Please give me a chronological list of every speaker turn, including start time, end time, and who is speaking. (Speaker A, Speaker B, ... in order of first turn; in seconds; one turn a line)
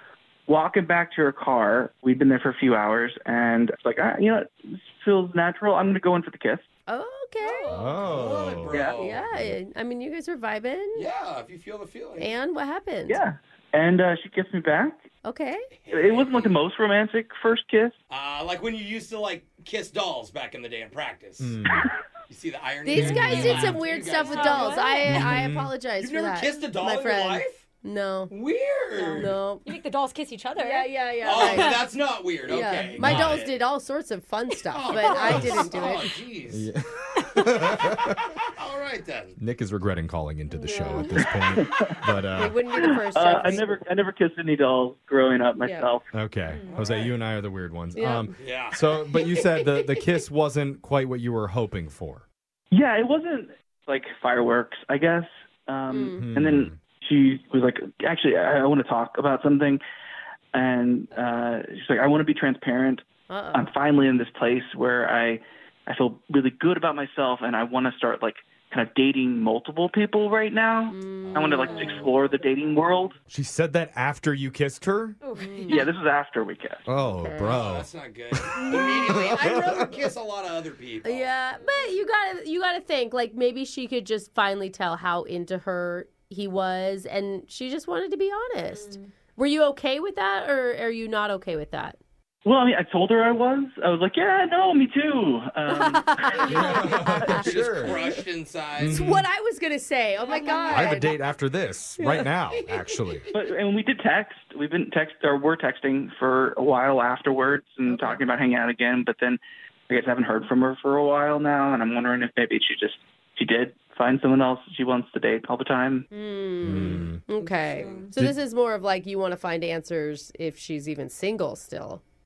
Speaker A: 0.5-6.7
Speaker B: 6.9-7.7
Speaker C: 7.6-9.2
Speaker D: 7.7-9.6
Speaker A: 8.7-9.0
Speaker B: 8.9-11.0
Speaker C: 10.9-12.3
Speaker B: 12.2-13.2
Speaker A: 13.1-15.0
Speaker B: 15.2-15.7
Speaker C: 15.8-16.6
Speaker A: 15.9-17.9
Speaker C: 18.1-21.6
Speaker D: 21.4-21.9
Speaker C: 22.3-24.9
Speaker B: 22.8-28.3
Speaker D: 23.1-23.7
Speaker E: 23.1-23.6
Speaker E: 24.2-25.3
Speaker D: 25.0-25.7
Speaker C: 26.0-27.6
Speaker C: 28.3-29.3
Speaker B: 28.9-29.7
Speaker E: 29.6-31.8
Speaker B: 30.6-31.9
Speaker C: 31.2-33.5
Speaker B: 32.5-36.1
Speaker D: 33.0-33.4
Speaker C: 34.7-36.7
Speaker D: 36.5-38.2
Speaker C: 38.4-39.3
Speaker D: 39.4-42.6
Speaker E: 40.5-41.0
Speaker A: 41.6-42.1
Speaker B: 42.4-43.8
Speaker A: 43.1-46.0
Speaker D: 46.1-52.2
Speaker C: 46.6-47.1
Speaker B: 48.0-48.4
Speaker C: 48.4-49.7
Speaker A: 52.7-59.8
Speaker B: 55.9-56.2
Speaker D: 56.2-56.8
Speaker A: 60.5-73.1
Speaker B: 63.3-63.7
Speaker B: 70.9-72.0
Speaker C: 71.2-72.3
Speaker D: 73.3-75.2
Speaker E: 75.2-75.9
Speaker B: 75.3-75.9
Speaker A: 75.7-76.8
Speaker D: 76.9-79.8
Speaker B: 77.2-77.6
Speaker C: 77.4-81.3
Speaker B: 78.7-79.1
Speaker B: 81.0-92.0
Speaker E: 81.6-81.9
Speaker E: 88.7-89.0
Speaker A: 92.5-97.5
Speaker B: 95.7-98.1
Speaker D: 96.5-98.0
Speaker C: 96.7-99.0
Speaker D: 98.8-99.3
Speaker B: 98.8-101.1
Speaker D: 100.7-103.2
Speaker B: 102.0-102.3
Speaker A: 103.3-116.1
Speaker B: 107.8-108.2
Speaker B: 116.1-122.0
Speaker D: 116.6-117.2
Speaker C: 117.8-118.1